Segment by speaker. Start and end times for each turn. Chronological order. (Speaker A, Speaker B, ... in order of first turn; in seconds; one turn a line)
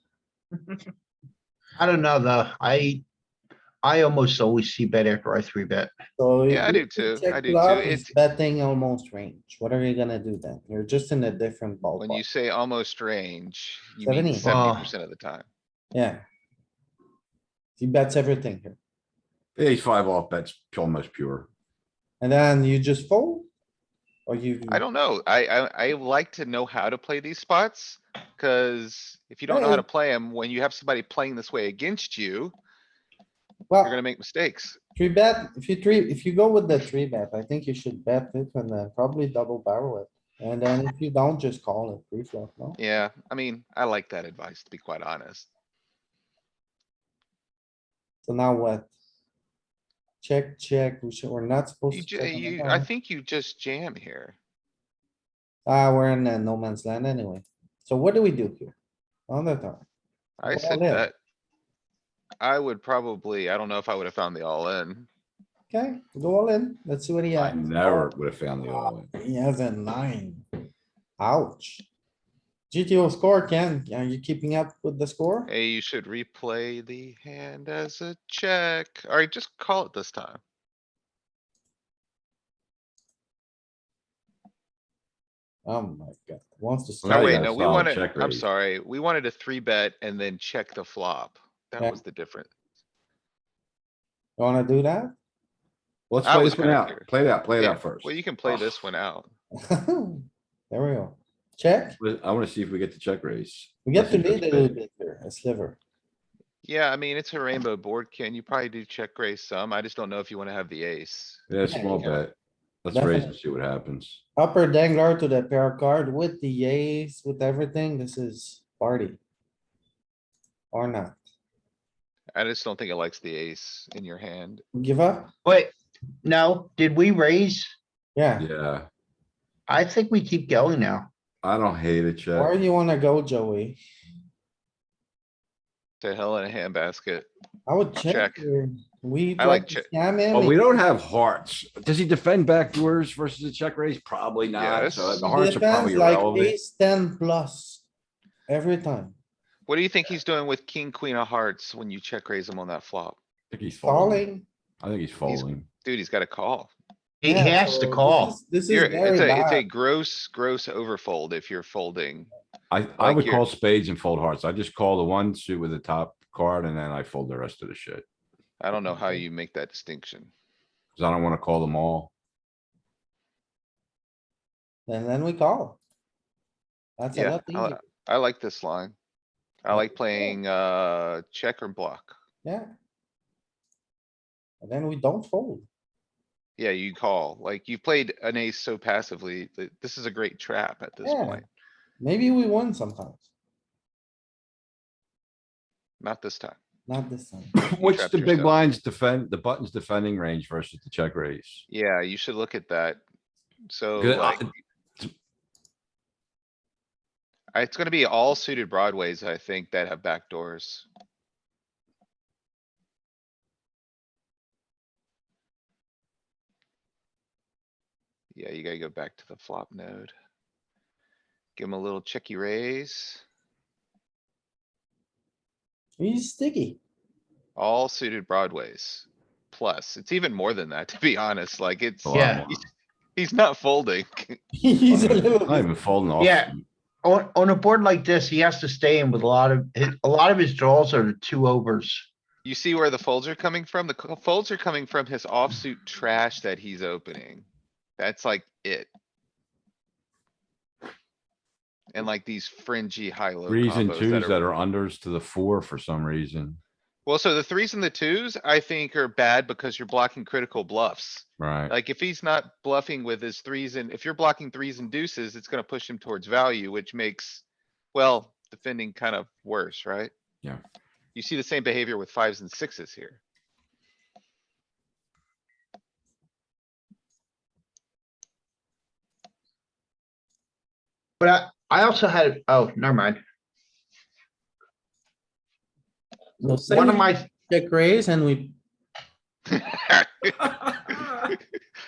Speaker A: 1.8-3.0
Speaker A: 3.8-5.9
Speaker B: 6.2-12.2
Speaker C: 6.5-8.1
Speaker C: 12.0-15.5
Speaker B: 14.0-14.5
Speaker A: 14.4-14.9
Speaker B: 15.9-16.2
Speaker B: 17.8-18.8
Speaker D: 19.6-21.5
Speaker B: 22.2-23.5
Speaker B: 24.3-24.8
Speaker C: 24.7-32.5
Speaker B: 29.5-29.8
Speaker B: 33.7-34.0
Speaker C: 33.8-34.8
Speaker B: 35.0-42.8
Speaker C: 42.8-45.5
Speaker B: 48.2-48.9
Speaker B: 50.2-52.9
Speaker C: 51.9-54.4
Speaker B: 55.6-58.7
Speaker B: 59.3-59.8
Speaker C: 60.4-61.1
Speaker B: 60.5-61.1
Speaker C: 62.4-65.1
Speaker B: 65.7-68.1
Speaker D: 67.3-69.1
Speaker B: 68.7-70.4
Speaker B: 71.2-71.8
Speaker B: 72.7-75.5
Speaker C: 75.5-80.4
Speaker B: 85.7-87.5
Speaker D: 87.0-88.5
Speaker C: 87.1-92.5
Speaker B: 94.4-95.1
Speaker D: 96.1-98.7
Speaker C: 96.2-97.1
Speaker C: 97.6-99.3
Speaker B: 99.7-102.0
Speaker D: 102.0-104.7
Speaker B: 103.8-105.8
Speaker C: 106.6-112.2
Speaker D: 111.5-114.2
Speaker B: 111.6-112.0
Speaker B: 112.9-113.3
Speaker B: 114.4-119.2
Speaker B: 120.7-121.2
Speaker C: 122.3-124.6
Speaker B: 124.7-125.3
Speaker A: 125.4-125.7
Speaker A: 126.2-127.7
Speaker B: 128.1-128.4
Speaker D: 128.4-128.9
Speaker A: 129.7-131.1
Speaker D: 131.4-132.5
Speaker B: 132.3-133.8
Speaker C: 136.0-137.3
Speaker B: 137.7-140.6
Speaker C: 137.9-138.5
Speaker C: 139.4-139.9
Speaker D: 140.3-146.5
Speaker C: 144.6-145.3
Speaker B: 145.2-147.8
Speaker B: 148.5-149.1
Speaker C: 149.7-153.2
Speaker D: 153.5-154.2
Speaker B: 153.8-154.4
Speaker D: 154.8-155.7
Speaker C: 155.3-156.7
Speaker A: 157.2-158.4
Speaker B: 157.2-159.6
Speaker C: 158.7-162.3
Speaker D: 162.7-168.0
Speaker C: 163.0-163.4
Speaker C: 168.6-170.3
Speaker B: 168.8-169.2
Speaker D: 170.9-172.1
Speaker B: 174.9-175.8
Speaker B: 177.0-177.8
Speaker C: 177.1-178.9
Speaker C: 179.6-182.1
Speaker B: 179.7-180.4
Speaker B: 182.4-182.7
Speaker B: 184.6-185.6
Speaker C: 186.6-191.4
Speaker B: 191.0-191.4
Speaker B: 192.0-193.2
Speaker C: 196.0-196.6
Speaker B: 196.9-197.6
Speaker D: 197.6-201.6
Speaker C: 197.8-198.6
Speaker C: 201.7-203.0
Speaker C: 203.7-204.4
Speaker D: 204.0-205.1
Speaker C: 207.5-210.9
Speaker C: 218.3-220.1
Speaker C: 221.6-223.2
Speaker B: 226.0-226.8
Speaker C: 227.6-232.6
Speaker D: 232.0-232.6
Speaker A: 232.1-232.4
Speaker C: 233.2-234.4
Speaker B: 234.5-235.7
Speaker D: 234.9-236.6
Speaker A: 236.2-236.5
Speaker A: 237.0-242.1
Speaker C: 242.4-247.4
Speaker C: 248.0-248.9
Speaker C: 251.9-254.4
Speaker D: 253.5-256.6
Speaker C: 257.1-270.1
Speaker D: 261.4-261.7
Speaker C: 271.1-273.2
Speaker A: 281.2-283.2
Speaker B: 286.4-288.6
Speaker A: 286.7-287.3
Speaker C: 289.5-291.3